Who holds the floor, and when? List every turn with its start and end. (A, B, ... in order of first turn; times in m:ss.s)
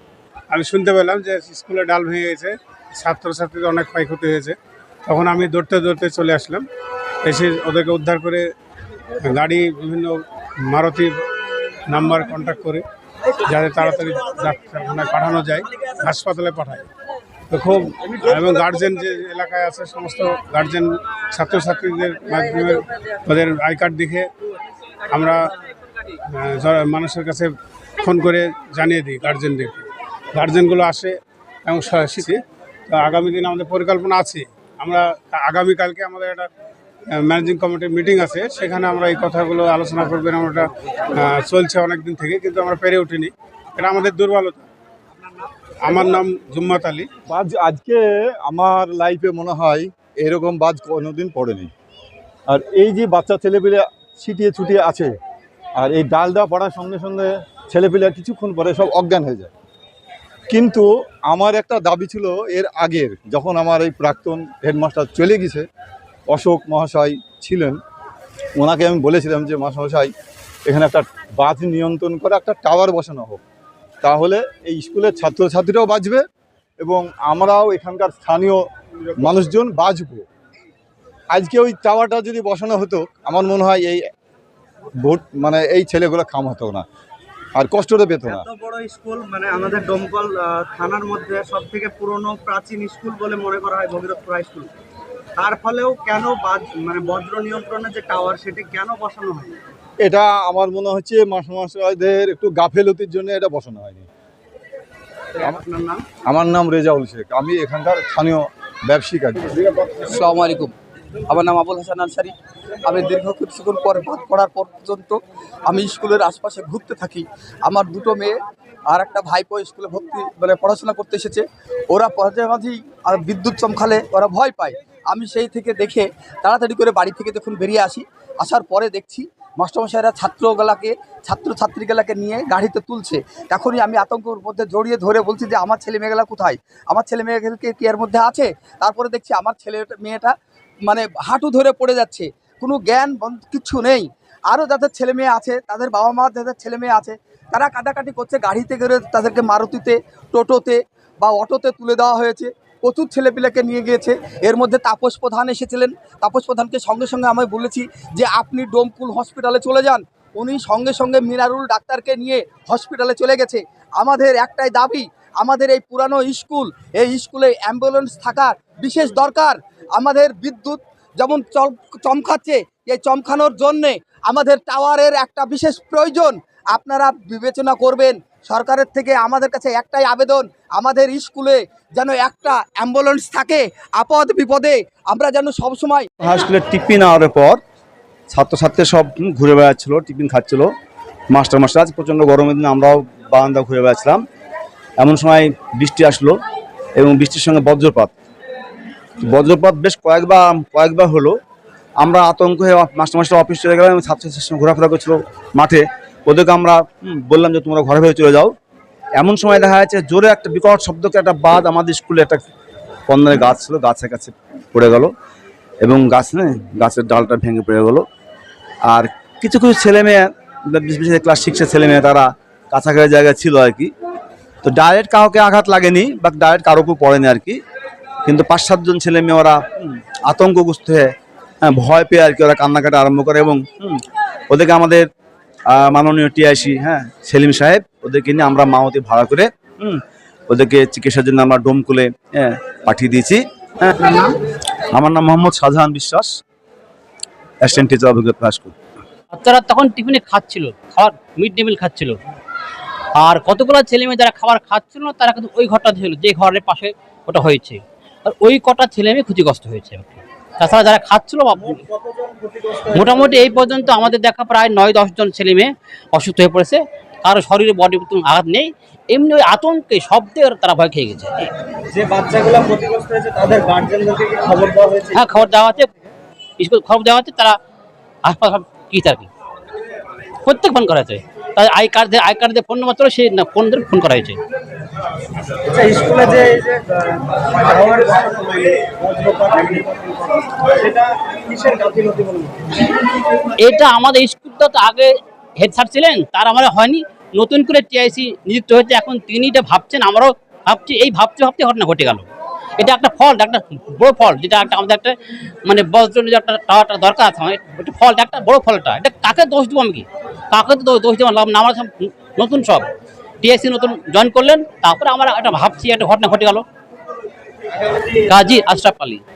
0:00.5-0:06.7 A
0:07.2-0:08.5 A
0:09.2-0:11.2 A
0:11.9-0:12.8 A
0:13.4-0:16.8 A
0:17.5-0:24.3 A
0:25.1-0:25.5 A
0:26.3-0:29.8 A
0:30.3-0:36.5 A
0:37.1-0:44.7 A
0:45.8-0:47.1 A
0:47.3-0:51.7 B
0:52.5-0:55.2 B
0:55.8-0:59.5 B
1:00.5-1:05.6 B
1:06.3-1:07.8 B
1:08.6-1:10.1 B
1:10.7-1:13.4 B
1:14.0-1:16.2 B
1:16.8-1:18.6 B
1:19.2-1:20.2 B
1:21.3-1:24.0 B
1:25.0-1:26.8 B
1:27.6-1:28.5 B
1:28.3-1:34.7 C
1:35.4-1:39.6 C
1:40.0-1:44.1 B
1:45.4-1:46.0 C
1:46.3-1:49.6 B
1:50.0-1:50.7 D
1:51.3-1:52.3 D
1:52.8-1:58.4 D
1:58.9-2:20.3 D
2:20.8-3:06.1 D
3:06.2-3:07.6 E
3:08.3-3:10.7 E
3:11.3-3:14.2 E
3:15.0-3:16.4 E
3:17.0-3:18.1 E
3:19.2-3:21.4 E
3:22.0-3:28.5 E
3:29.2-3:32.4 E
3:33.1-3:35.1 E
3:35.8-3:38.0 E
3:38.9-3:43.9 E
3:44.6-3:47.6 E
3:48.2-3:55.1 E
3:55.7-4:04.3 E
4:04.9-4:06.3 E
4:07.6-4:08.7 E
4:09.3-4:12.2 F
4:13.2-4:21.8 F
4:21.6-4:23.8 C
4:22.9-4:31.5 F
4:31.9-4:36.0 C
4:35.1-4:35.9 F
4:36.6-4:37.6 F
4:38.2-4:39.3 F
4:40.4-4:44.4 F
4:45.7-4:52.8 C
4:53.6-5:02.2 F
5:02.8-5:12.9 F
5:13.4-5:16.6 F
5:18.2-5:19.2 F